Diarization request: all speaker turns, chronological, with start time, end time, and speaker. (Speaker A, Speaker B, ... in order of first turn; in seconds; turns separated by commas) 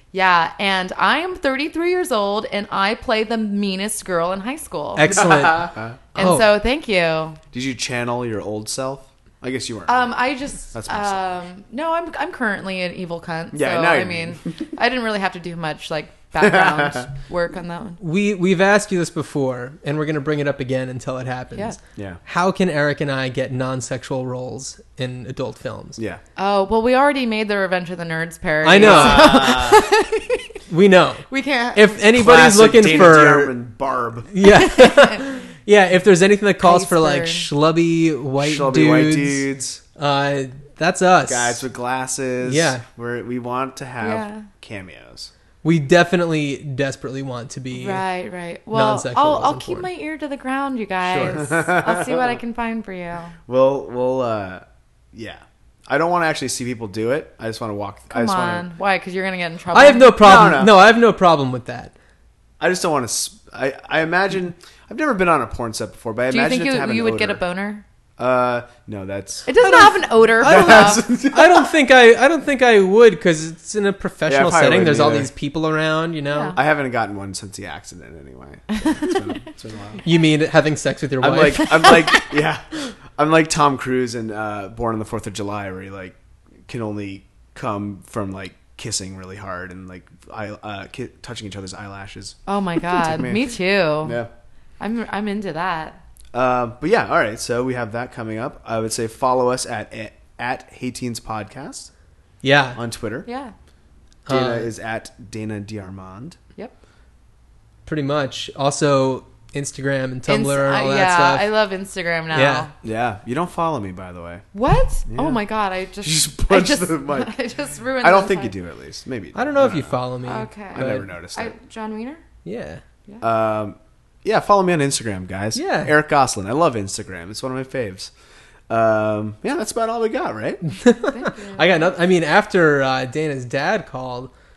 Speaker A: 0.1-5.5, Speaker B: 5.0-6.5, Speaker C: 5.2-6.0, Speaker A: 6.1-7.4, Speaker C: 7.5-10.2, Speaker A: 9.9-18.0, Speaker C: 10.7-11.2, Speaker C: 13.5-14.5, Speaker C: 16.4-17.1, Speaker B: 18.0-26.0, Speaker C: 21.9-22.2, Speaker C: 26.0-26.2, Speaker A: 26.4-30.6, Speaker B: 28.6-29.7, Speaker C: 28.8-29.8, Speaker B: 30.7-33.5, Speaker A: 31.3-32.0, Speaker C: 32.1-34.3, Speaker B: 34.3-41.6, Speaker A: 34.4-35.2, Speaker A: 36.6-37.5, Speaker C: 38.4-39.8, Speaker C: 41.3-45.3, Speaker B: 42.4-42.8, Speaker A: 44.0-44.5, Speaker B: 45.6-48.0, Speaker A: 47.7-53.4, Speaker B: 48.7-49.9, Speaker B: 51.0-51.4, Speaker C: 51.3-52.4, Speaker C: 53.5-58.7, Speaker A: 58.1-60.5, Speaker B: 59.7-61.9, Speaker C: 60.2-60.7, Speaker C: 62.6-67.4, Speaker A: 66.3-67.8, Speaker C: 68.2-69.5, Speaker A: 69.5-71.0, Speaker B: 69.6-76.6, Speaker C: 70.4-71.7, Speaker C: 74.3-75.3, Speaker A: 76.3-76.6, Speaker C: 76.5-80.0, Speaker A: 78.8-79.1, Speaker B: 80.0-82.1, Speaker C: 81.2-93.5, Speaker A: 92.5-94.2, Speaker C: 94.0-94.3, Speaker A: 94.8-96.0, Speaker C: 96.3-101.9, Speaker B: 102.4-102.8, Speaker C: 102.7-103.3, Speaker A: 103.2-103.5, Speaker B: 104.3-104.7, Speaker C: 104.3-106.4, Speaker B: 107.8-111.5, Speaker A: 110.3-112.7, Speaker B: 112.3-112.7, Speaker C: 112.8-114.4, Speaker A: 114.5-118.5, Speaker C: 115.1-115.4, Speaker C: 116.0-117.3, Speaker C: 118.0-120.0, Speaker B: 119.3-121.0, Speaker A: 120.2-122.2, Speaker C: 120.7-121.5, Speaker B: 122.4-122.8, Speaker C: 123.2-128.1, Speaker B: 125.5-125.9, Speaker C: 128.7-130.6, Speaker B: 130.7-134.3, Speaker A: 131.1-131.9